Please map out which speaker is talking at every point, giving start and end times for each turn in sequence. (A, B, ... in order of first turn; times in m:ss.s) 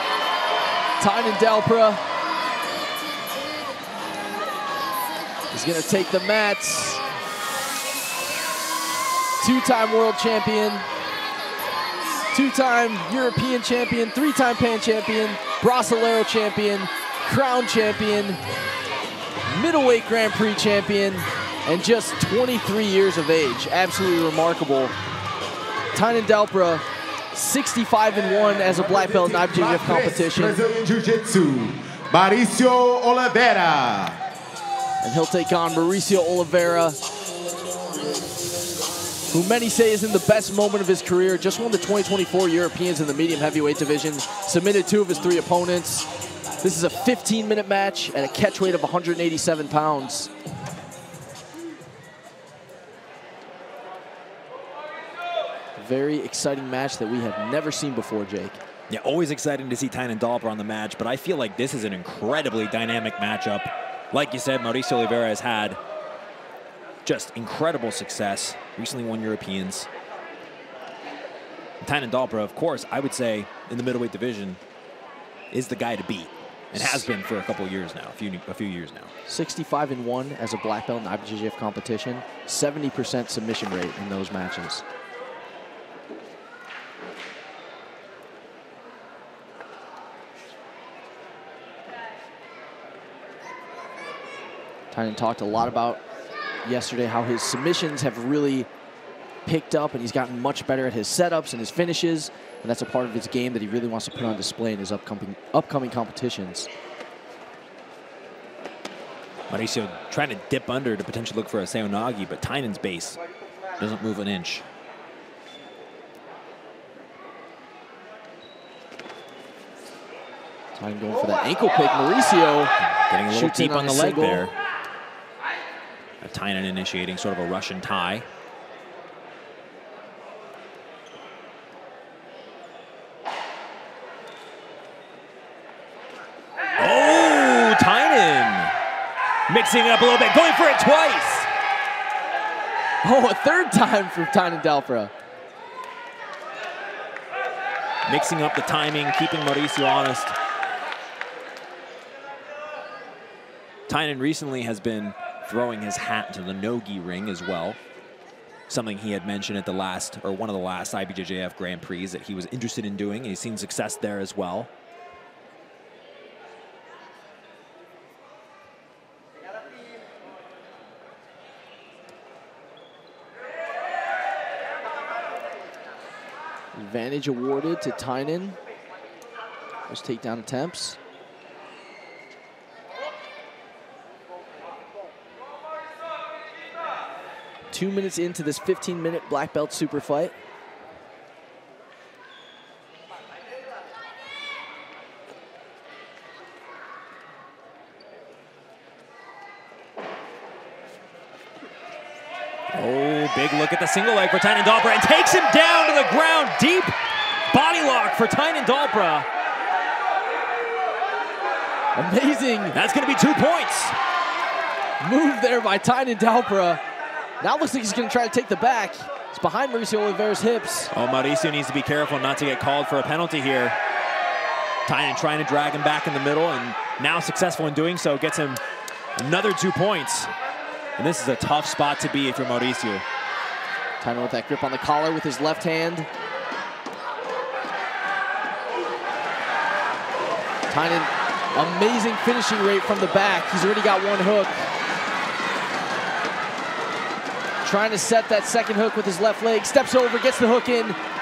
0:01.0-0:02.0 A
0:05.5-0:07.0 A
0:09.4-0:10.8 A
0:12.3-0:18.4 A
0:19.5-0:24.9 A
0:25.9-0:30.6 A
0:28.4-0:34.2 B
0:35.0-0:37.0 A
0:39.3-0:46.1 A
0:46.6-0:50.3 A
0:55.8-0:58.6 A
0:58.9-1:05.8 C
1:07.0-1:09.9 C
1:11.8-1:14.6 C
1:15.5-1:19.1 C
1:19.3-1:24.8 A
1:34.9-1:36.0 A
1:36.6-1:38.7 A
1:39.4-1:46.7 A
1:49.5-1:53.2 C
1:53.8-1:54.6 C
2:00.8-2:02.7 A
2:02.8-2:04.5 C
2:03.3-2:04.5 A
2:06.2-2:08.2 C
2:16.8-2:18.7 C
2:19.5-2:21.5 C
2:23.0-2:25.1 A
2:28.0-2:30.4 C
2:33.9-2:37.8 C
2:38.7-2:44.7 C
2:56.7-2:58.6 A
2:59.9-3:01.0 A
3:07.7-3:10.3 A
3:22.7-3:27.0 C
3:27.5-3:29.3 C
3:31.9-3:32.8 A
3:32.7-3:34.0 C
3:35.0-3:36.8 A
3:37.4-3:40.9 A
3:40.9-3:43.8 C
3:44.8-3:48.6 C
3:49.2-3:50.3 C
3:51.0-3:53.0 C
3:54.0-3:56.1 A
4:00.7-4:04.5 A
4:07.6-4:11.0 A